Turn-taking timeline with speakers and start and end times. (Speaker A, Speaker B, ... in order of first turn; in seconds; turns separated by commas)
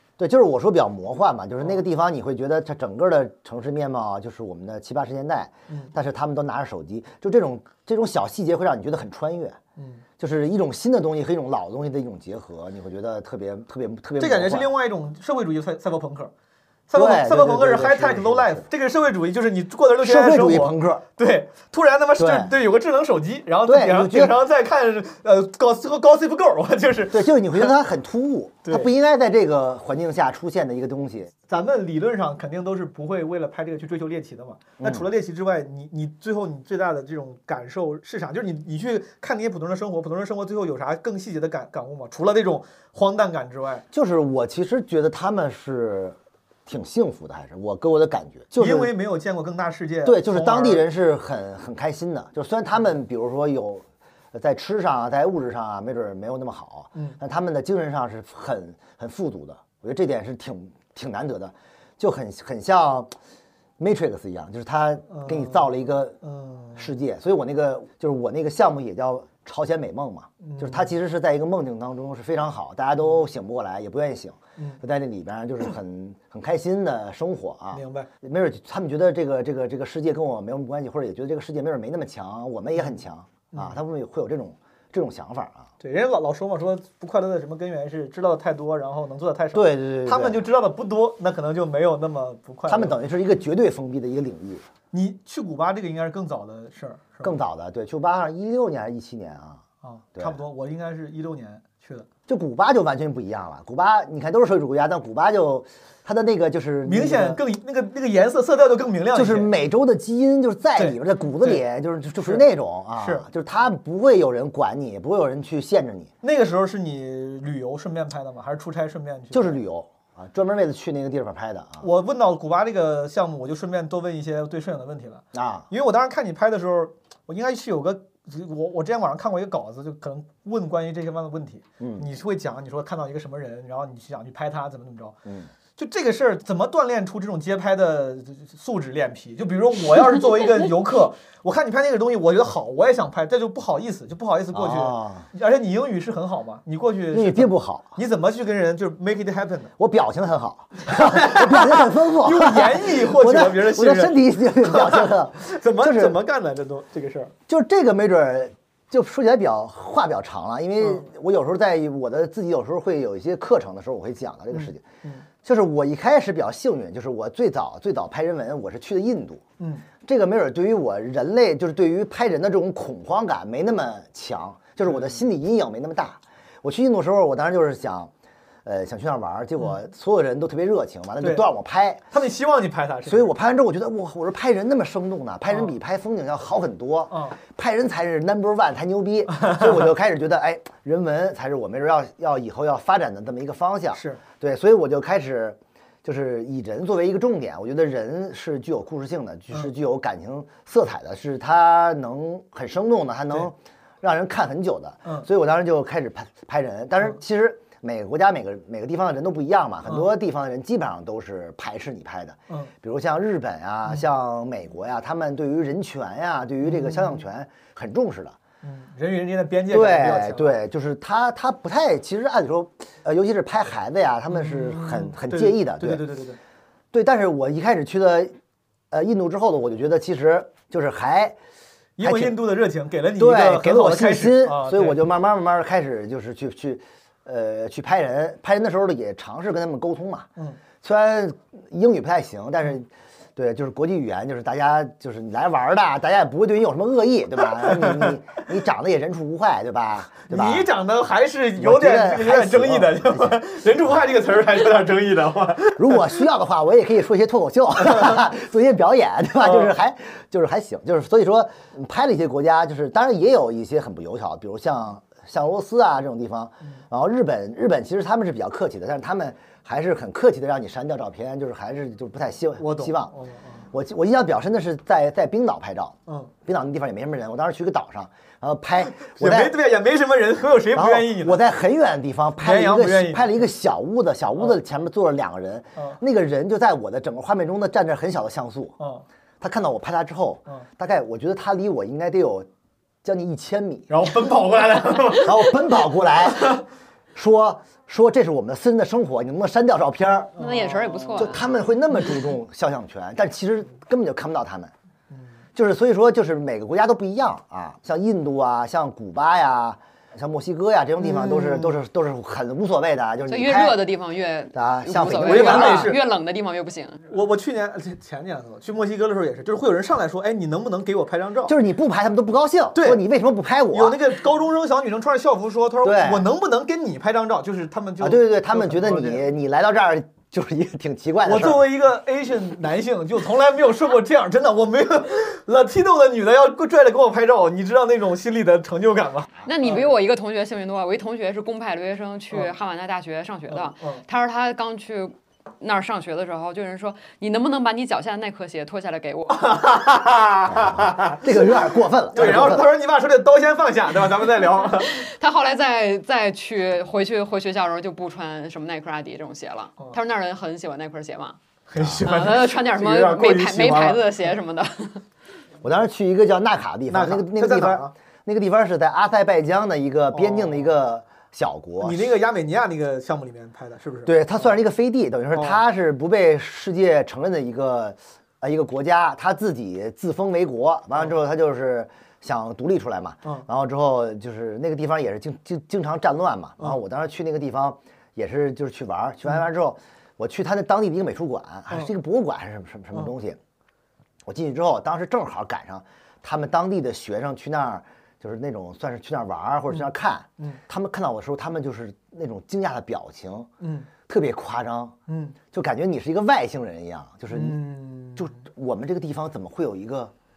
Speaker A: 0.2-9.6, Speaker B: 9.8-10.0, Speaker A: 10.2-14.7, Speaker B: 14.2-16.3, Speaker B: 16.9-27.7, Speaker A: 16.9-18.6, Speaker A: 20.0-21.0, Speaker A: 22.2-22.5, Speaker A: 23.6-24.3, Speaker A: 27.1-31.3, Speaker B: 28.6-28.9, Speaker B: 31.5-43.8, Speaker A: 34.8-35.0, Speaker A: 43.9-48.9, Speaker B: 48.5-50.8, Speaker A: 50.0-63.1, Speaker A: 63.8-66.2, Speaker B: 65.1-66.9, Speaker A: 66.8-85.7, Speaker B: 70.4-70.9, Speaker B: 77.7-78.1, Speaker B: 83.5-83.8, Speaker B: 85.8-93.0, Speaker A: 89.5-90.4, Speaker A: 92.7-94.6, Speaker B: 94.9-97.3, Speaker A: 97.2-99.6, Speaker B: 99.8-102.0, Speaker A: 102.3-107.4, Speaker B: 106.8-109.5, Speaker A: 109.1-116.1, Speaker B: 110.8-111.6, Speaker B: 113.0-113.2, Speaker B: 116.2-119.6, Speaker A: 119.3-121.9, Speaker B: 121.8-135.2, Speaker A: 125.3-125.7, Speaker A: 131.8-132.1, Speaker A: 135.2-135.5, Speaker B: 135.8-149.7, Speaker A: 144.5-145.2, Speaker A: 147.1-147.9, Speaker A: 149.8-156.2, Speaker B: 150.8-157.3, Speaker A: 157.5-164.8, Speaker B: 160.8-161.1, Speaker B: 164.5-165.2, Speaker A: 165.4-169.4, Speaker B: 169.6-169.8, Speaker A: 170.0-178.1, Speaker B: 174.9-175.1, Speaker A: 178.6-182.0, Speaker B: 181.2-181.5, Speaker B: 182.1-183.3, Speaker A: 183.1-218.4, Speaker B: 187.1-187.4, Speaker B: 189.3-189.7, Speaker B: 193.9-194.2, Speaker B: 216.6-217.2, Speaker B: 218.6-220.6, Speaker A: 219.7-226.0, Speaker B: 224.3-226.4, Speaker A: 226.9-228.3, Speaker A: 228.9-231.4, Speaker B: 232.0-235.0, Speaker A: 232.0-232.4, Speaker A: 233.2-240.3, Speaker A: 240.8-250.7, Speaker B: 247.7-248.1, Speaker B: 250.3-256.1, Speaker A: 251.6-253.4, Speaker A: 255.8-273.1, Speaker B: 259.4-259.7, Speaker B: 272.6-273.6, Speaker A: 273.7-279.6, Speaker B: 278.9-281.4, Speaker A: 280.7-288.7, Speaker B: 282.4-283.5, Speaker B: 288.8-289.0, Speaker A: 289.4-292.5, Speaker A: 293.0-293.9, Speaker B: 293.9-295.6, Speaker A: 295.2-296.6, Speaker A: 297.1-300.4, Speaker B: 300.4-301.3, Speaker C: 300.4-301.5, Speaker A: 301.1-304.7, Speaker A: 305.5-313.8, Speaker B: 311.0-311.7, Speaker C: 313.3-317.0, Speaker A: 314.5-316.0, Speaker B: 315.1-316.0, Speaker B: 317.1-321.5, Speaker A: 321.4-324.0, Speaker B: 322.7-323.0, Speaker B: 323.7-329.2, Speaker A: 325.8-326.3, Speaker A: 328.0-331.6, Speaker B: 331.2-339.9, Speaker C: 339.4-349.5, Speaker B: 343.5-344.0, Speaker B: 349.3-351.5, Speaker A: 350.5-352.7, Speaker B: 352.1-355.1, Speaker C: 354.7-361.4, Speaker B: 361.7-364.1, Speaker C: 362.0-365.0, Speaker A: 365.6-372.0, Speaker B: 366.9-367.9, Speaker B: 370.1-370.7, Speaker B: 371.8-374.4, Speaker A: 374.1-393.4, Speaker B: 375.3-375.6, Speaker A: 394.2-403.5, Speaker B: 403.6-403.9, Speaker A: 404.1-404.9, Speaker B: 405.1-405.4, Speaker A: 405.5-407.6, Speaker B: 407.3-408.4, Speaker A: 408.1-410.1